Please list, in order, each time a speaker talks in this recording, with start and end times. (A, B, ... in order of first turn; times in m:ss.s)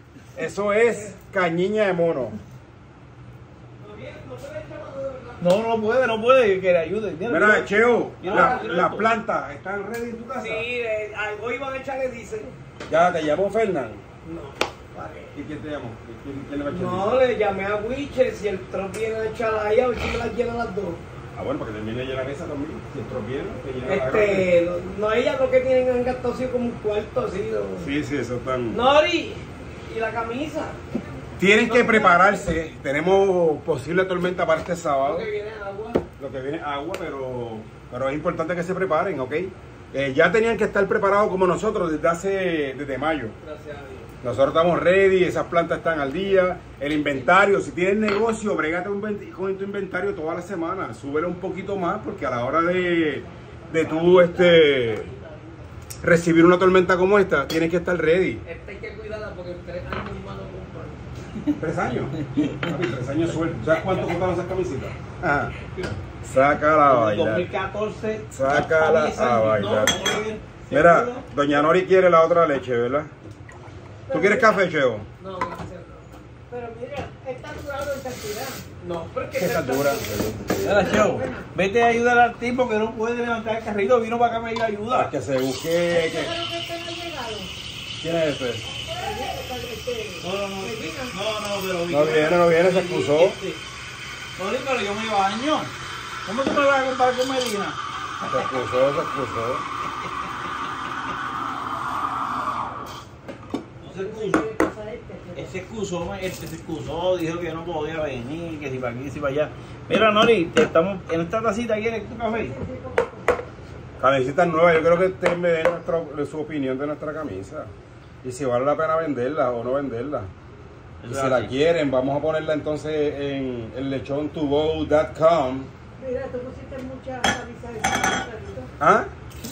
0:00.3-0:02.4 A
0:03.8-0:05.5 B
0:05.4-0:09.1 C
0:07.3-0:10.6 A
0:08.2-0:08.8 B
0:10.4-0:12.5 B
0:12.9-0:14.0 A
0:14.2-0:15.4 B
0:15.3-0:17.2 A
0:16.7-0:21.0 B
0:21.3-0:24.5 A
0:23.8-0:27.9 B
0:27.8-0:28.8 A
0:28.7-0:30.8 B
0:31.4-0:35.3 A
0:31.6-0:32.5 B
0:35.0-0:36.0 B
0:36.2-0:43.3 A
0:43.4-0:44.1 B
0:44.2-0:55.1 A
0:53.7-0:55.2 B
0:56.0-0:58.4 A
0:58.4-1:01.0 B
1:01.6-1:05.5 A
1:02.2-1:02.7 C
1:05.5-1:05.9 C
1:06.2-1:07.5 A
1:06.8-1:11.5 C
1:08.3-1:10.2 A
1:10.7-1:13.1 A
1:14.1-1:14.6 D
1:14.1-1:15.0 A
1:15.2-1:16.1 B
1:16.5-1:18.6 D
1:18.8-1:20.6 B
1:19.3-1:21.0 A
1:20.6-1:25.1 C
1:20.7-1:21.4 D
1:24.9-1:26.3 A
1:25.9-1:27.5 D
1:28.0-1:28.6 A
1:28.9-1:31.1 D
1:29.0-1:29.3 B
1:30.2-1:33.6 C
1:31.9-1:33.4 A
1:34.4-1:35.7 C
1:36.2-1:37.8 C
1:38.3-1:39.6 A
1:43.8-1:44.4 C
1:43.9-1:45.6 D
1:45.3-1:52.6 C
1:52.3-1:53.3 D
1:54.0-1:57.7 A
1:58.2-2:00.3 A
2:01.0-2:01.5 C
2:01.1-2:05.7 A
2:06.0-2:08.7 D
2:08.8-2:09.1 A